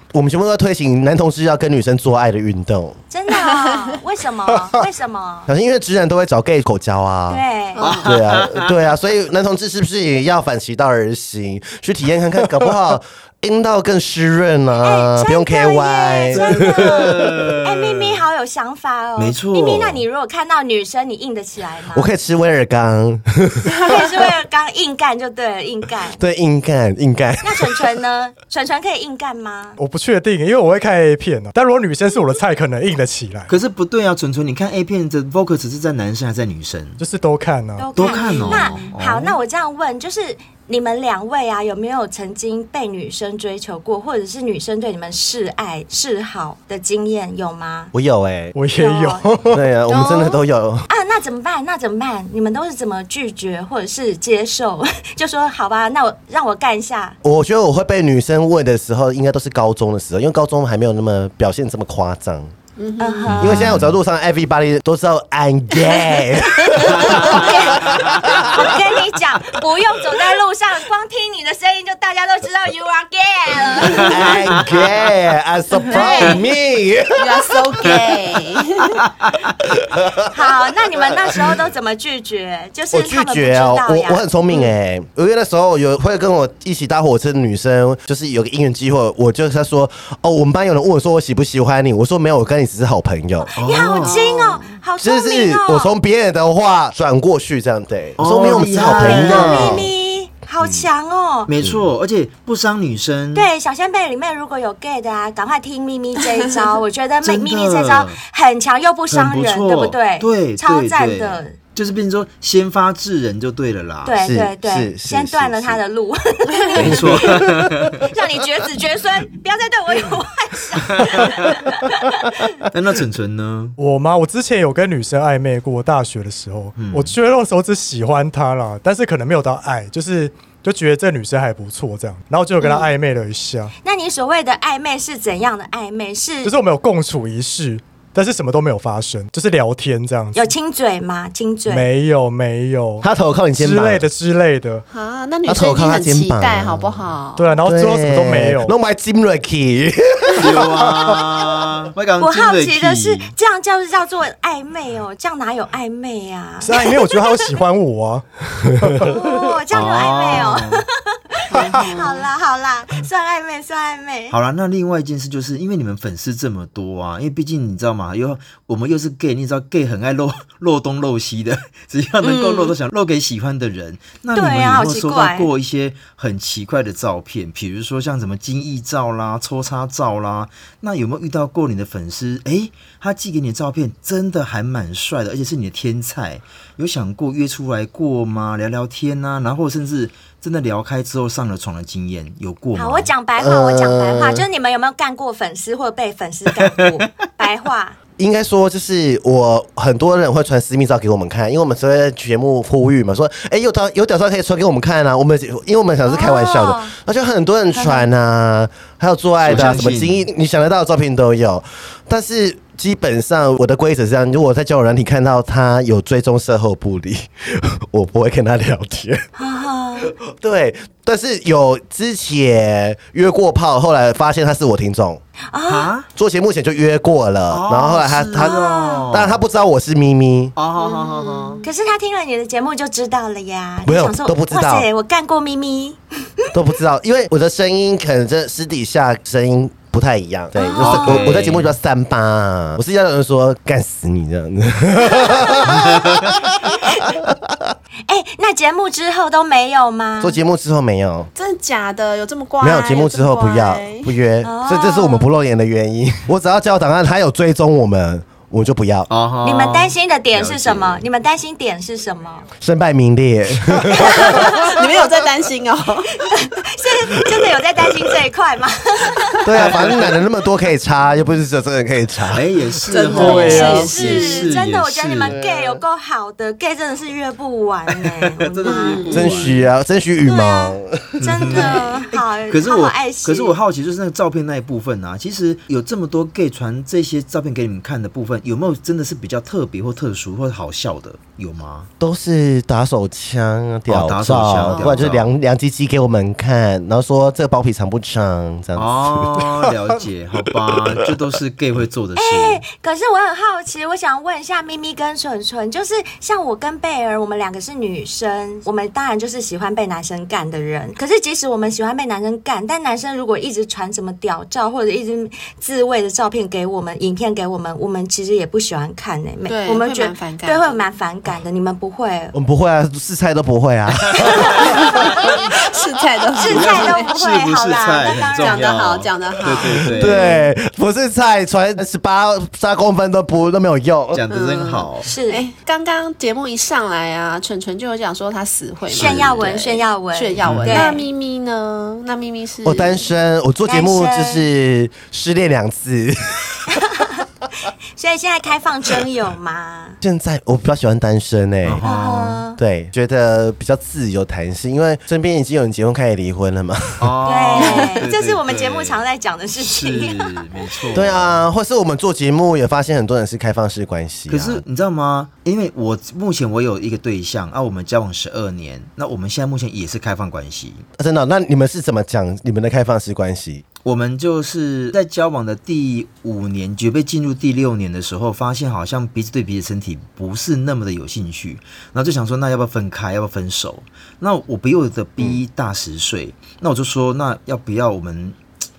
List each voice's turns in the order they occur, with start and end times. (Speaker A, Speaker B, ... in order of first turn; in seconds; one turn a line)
Speaker A: 0.1-3.0
Speaker B: 3.1-5.5
Speaker C: 3.3-3.7
Speaker A: 5.5-7.4
Speaker B: 7.3-7.9
Speaker C: 7.8-8.1
Speaker D: 7.8-8.8
Speaker A: 8.0-17.5
Speaker B: 14.8-22.1
Speaker D: 16.3-18.2
Speaker D: 19.2-20.0
Speaker A: 21.9-24.1
Speaker B: 23.8-26.2
Speaker A: 26.2-27.8
Speaker B: 27.4-29.8
Speaker E: 29.8-33.5
Speaker D: 33.5-37.0
Speaker E: 37.0-37.9
Speaker B: 37.8-47.9
Speaker D: 38.0-39.4
Speaker C: 38.0-38.9
Speaker A: 47.9-48.5
Speaker E: 48.5-49.6
Speaker B: 48.8-49.3
Speaker A: 49.5-50.9
Speaker C: 49.9-50.3
Speaker B: 49.9-50.3
Speaker B: 50.9-57.2
Speaker A: 57.2-62.5
Speaker C: 62.8-63.5
Speaker B: 63.0-63.5
Speaker D: 63.2-64.0
Speaker A: 63.4-68.8
Speaker B: 67.0-74.4
Speaker C: 67.0-67.4
Speaker D: 67.8-68.2
Speaker A: 74.1-77.9
Speaker B: 75.9-76.4
Speaker C: 77.2-79.0
Speaker D: 79.0-79.5
Speaker A: 79.9-80.3
Speaker B: 80.3-84.2
Speaker A: 82.9-93.5
Speaker B: 93.4-95.9
Speaker D: 93.6-94.2
Speaker C: 94.0-94.7
Speaker A: 95.0-99.9
Speaker D: 98.2-99.9
Speaker B: 98.7-101.5
Speaker A: 100.6-100.9
Speaker D: 101.5-103.5
Speaker A: 101.6-101.9
Speaker B: 103.3-111.6
Speaker D: 107.2-108.2
Speaker D: 109.1-114.1
Speaker B: 114.0-117.5
Speaker A: 114.2-115.8
Speaker D: 116.8-118.0
Speaker A: 116.9-117.7
Speaker B: 118.0-122.6
Speaker D: 120.9-121.5
Speaker D: 122.7-123.8
Speaker E: 123.8-133.7
Speaker D: 126.8-127.2
Speaker B: 133.8-136.5
Speaker E: 136.4-140.5
Speaker B: 140.3-141.9
Speaker E: 141.7-144.8
Speaker A: 143.0-144.1
Speaker C: 144.9-147.6
Speaker A: 145.5-147.1
Speaker E: 147.4-148.7
Speaker A: 147.6-151.7
Speaker D: 150.4-153.3
Speaker B: 152.2-157.5
Speaker E: 156.6-159.2
Speaker B: 159.0-164.4
Speaker D: 159.7-160.8
Speaker C: 161.5-162.2
Speaker D: 164.3-193.1
Speaker B: 172.2-172.7
Speaker B: 174.3-175.5
Speaker B: 192.8-198.0
Speaker A: 193.4-194.4
Speaker D: 196.6-197.1
Speaker A: 198.2-219.2
Speaker B: 206.1-206.9
Speaker B: 207.7-208.1
Speaker D: 209.4-210.3
Speaker B: 219.4-220.1
Speaker A: 220.1-225.2
Speaker B: 225.5-225.9
Speaker D: 225.7-226.1
Speaker A: 226.2-230.5
Speaker D: 227.5-229.4
Speaker B: 228.3-229.1
Speaker D: 230.6-231.6
Speaker C: 230.8-231.7
Speaker B: 231.6-236.5
Speaker A: 233.8-234.9
Speaker A: 236.5-247.7
Speaker B: 240.6-241.3
Speaker D: 240.8-241.7
Speaker B: 245.1-246.0
Speaker B: 246.7-247.0
Speaker B: 248.1-250.4
Speaker A: 250.2-251.3
Speaker C: 251.3-254.1
Speaker A: 252.6-259.1
Speaker B: 254.4-255.3
Speaker D: 259.1-261.0
Speaker B: 259.4-262.5
Speaker A: 262.6-264.7
Speaker B: 264.0-264.8
Speaker C: 264.1-266.2
Speaker B: 266.2-269.4
Speaker A: 269.4-272.5
Speaker D: 269.6-270.1
Speaker D: 272.3-275.4
Speaker C: 272.9-274.5
Speaker B: 273.1-279.3
Speaker E: 273.2-273.8
Speaker A: 275.3-275.8
Speaker D: 278.4-279.7
Speaker C: 278.7-279.4
Speaker A: 279.1-281.8
Speaker B: 280.2-283.6
Speaker D: 281.2-291.9
Speaker A: 292.0-299.5
Speaker D: 293.9-295.3
Speaker C: 294.7-295.0
Speaker D: 298.8-302.6
Speaker B: 302.2-322.4
Speaker C: 319.5-320.8
Speaker A: 322.3-325.3
Speaker B: 324.2-325.1
Speaker C: 324.6-327.1
Speaker B: 326.4-328.7
Speaker D: 326.5-330.2
Speaker C: 328.4-330.3
Speaker A: 329.9-334.2
Speaker B: 330.0-330.5
Speaker D: 334.1-335.1
Speaker C: 334.3-343.1
Speaker B: 335.0-335.4
Speaker D: 338.9-339.4
Speaker B: 338.9-341.1
Speaker D: 340.4-340.9
Speaker A: 342.6-347.1
Speaker B: 343.6-344.4
Speaker B: 346.7-347.2
Speaker B: 347.9-350.0
Speaker A: 350.0-351.8
Speaker D: 351.6-352.4
Speaker B: 351.8-352.6
Speaker A: 352.6-357.1
Speaker D: 357.0-359.0
Speaker B: 357.2-360.8
Speaker C: 357.6-358.0
Speaker D: 359.6-361.5
Speaker A: 360.9-364.6
Speaker D: 364.3-370.8
Speaker A: 371.0-373.6
Speaker D: 373.8-388.4